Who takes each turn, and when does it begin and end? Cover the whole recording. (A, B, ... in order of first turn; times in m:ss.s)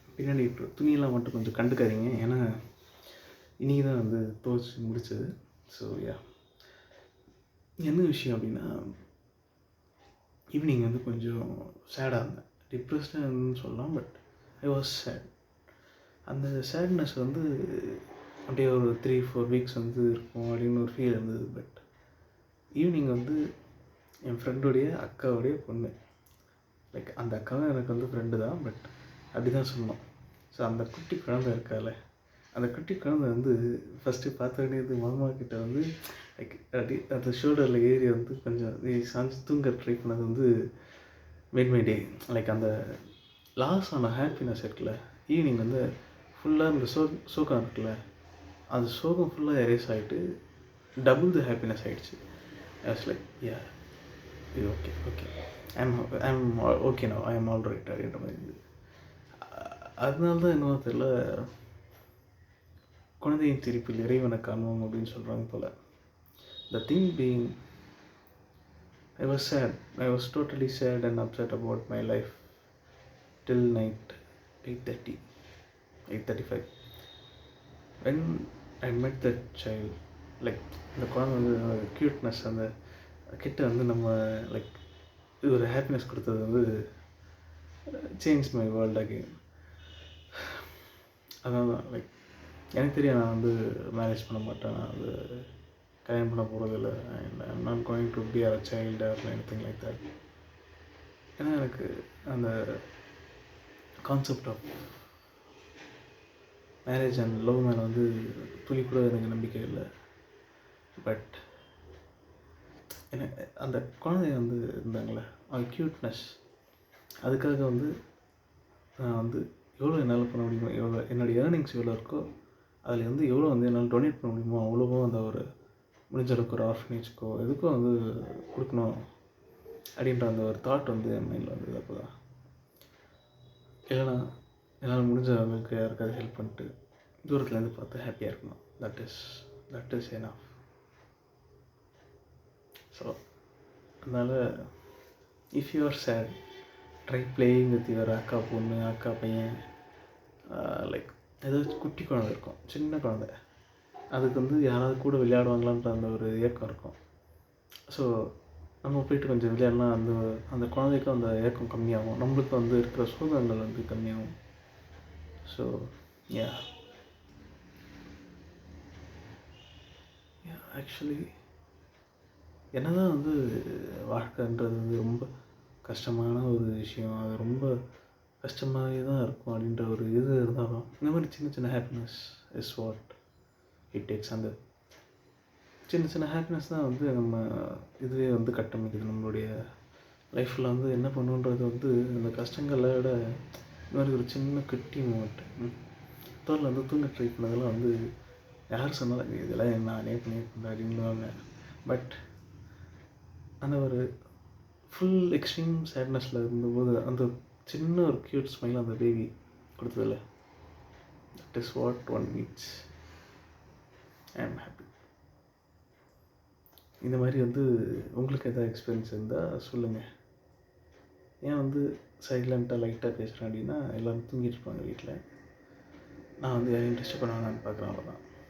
0:00.2-0:02.4 A
0:03.6-0:06.2 A
0:07.8-0:08.7 A
0:10.6-0:15.3 A
0:16.3-0:21.8 A
0:22.8-0:23.4 A
0:24.3-0:25.9 A
0:26.9-0:30.0 A
0:30.5-0:32.0 A
0:32.6-0:35.9 A
0:36.4-0:40.5 A
0:41.5-0:42.7 A
0:43.6-0:45.8 A
0:46.4-0:48.0 A
0:48.7-0:50.2 A
0:51.0-0:52.2 A
0:52.8-0:53.7 A
0:54.6-0:58.6 A
0:59.4-1:01.5 A
1:03.2-1:05.7 A
1:06.7-1:07.5 A
1:09.2-1:12.4 A
1:13.4-1:15.2 A
1:16.1-1:16.7 A
1:18.0-1:22.7 A
1:23.4-1:24.8 A
1:25.4-1:26.6 A
1:28.2-1:29.3 A
1:30.4-1:30.7 A
1:31.4-1:32.1 A
1:32.8-1:35.4 A
1:36.0-1:40.0 A
1:41.4-1:42.5 A
1:44.1-1:44.8 A
1:46.9-1:49.9 A
1:51.0-1:51.4 A
1:53.1-1:56.3 A
1:57.2-1:57.9 A
1:59.0-2:02.2 A
2:02.8-2:05.4 A
2:06.1-2:09.0 A
2:10.0-2:12.1 A
2:13.9-2:14.2 A
2:14.8-2:16.7 A
2:17.3-2:20.5 A
2:24.0-2:24.4 A
2:25.6-2:26.4 A
2:27.1-2:29.6 A
2:30.5-2:33.3 A
2:34.2-2:37.0 A
2:38.8-2:44.3 A
2:45.5-2:46.6 A
2:50.4-2:51.3 A
2:52.8-2:55.2 A
2:55.8-2:57.7 A
2:58.4-3:03.2 A
3:03.9-3:04.5 A
3:05.9-3:09.5 A
3:10.3-3:13.2 A
3:13.9-3:15.8 A
3:16.4-3:17.9 A
3:18.7-3:21.3 A
3:21.9-3:22.2 A
3:23.6-3:24.0 A
3:24.9-3:30.2 A
3:31.4-3:32.8 A
3:34.4-3:34.9 A
3:37.0-3:40.0 A
3:41.4-3:45.2 A
3:46.4-3:48.2 A